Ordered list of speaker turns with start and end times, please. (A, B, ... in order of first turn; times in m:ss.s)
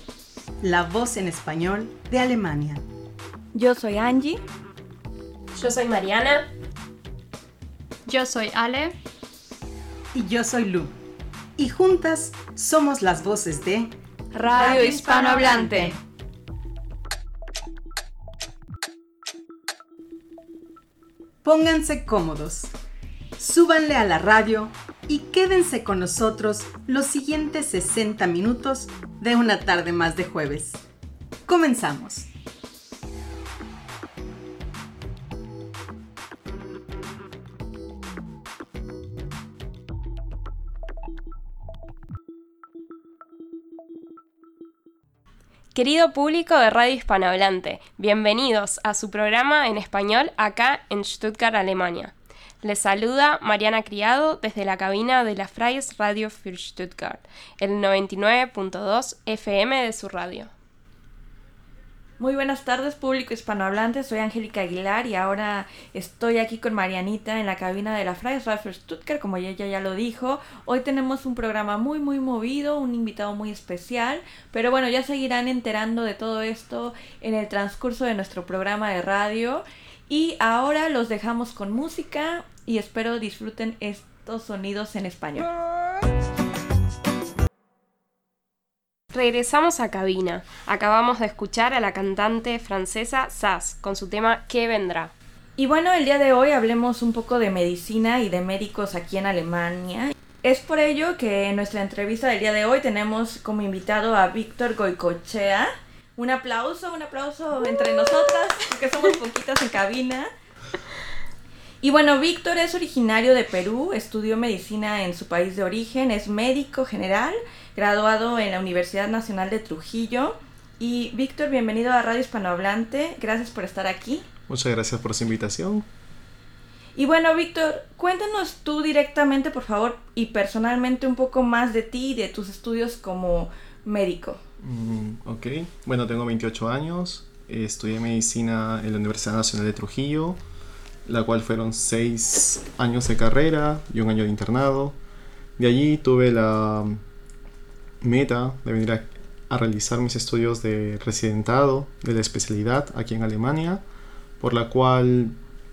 0:00.6-0:02.8 A
0:03.5-0:04.4 B
0:05.5-0:06.5 C
0:08.0-0:08.9 D
0:10.1-0:10.9 A
0:11.6-0:13.9 A
0:14.4-0:15.9 B
0:14.6-0:15.8 D
0:14.6-0:15.9 A
0:21.4-0:22.7 A
0:23.4-0:30.8 A
0:31.4-0:32.3 A
0:45.7-1:00.5 C
1:02.2-1:25.5 B
1:29.1-1:35.1 C
1:35.6-1:50.3 B
1:51.8-2:04.3 B
2:04.5-2:05.8 E
2:07.0-2:14.4 B
2:14.6-2:20.4 E
2:21.0-2:25.0 E
2:25.6-2:27.0 E
2:28.0-2:33.8 E
2:34.4-2:35.3 E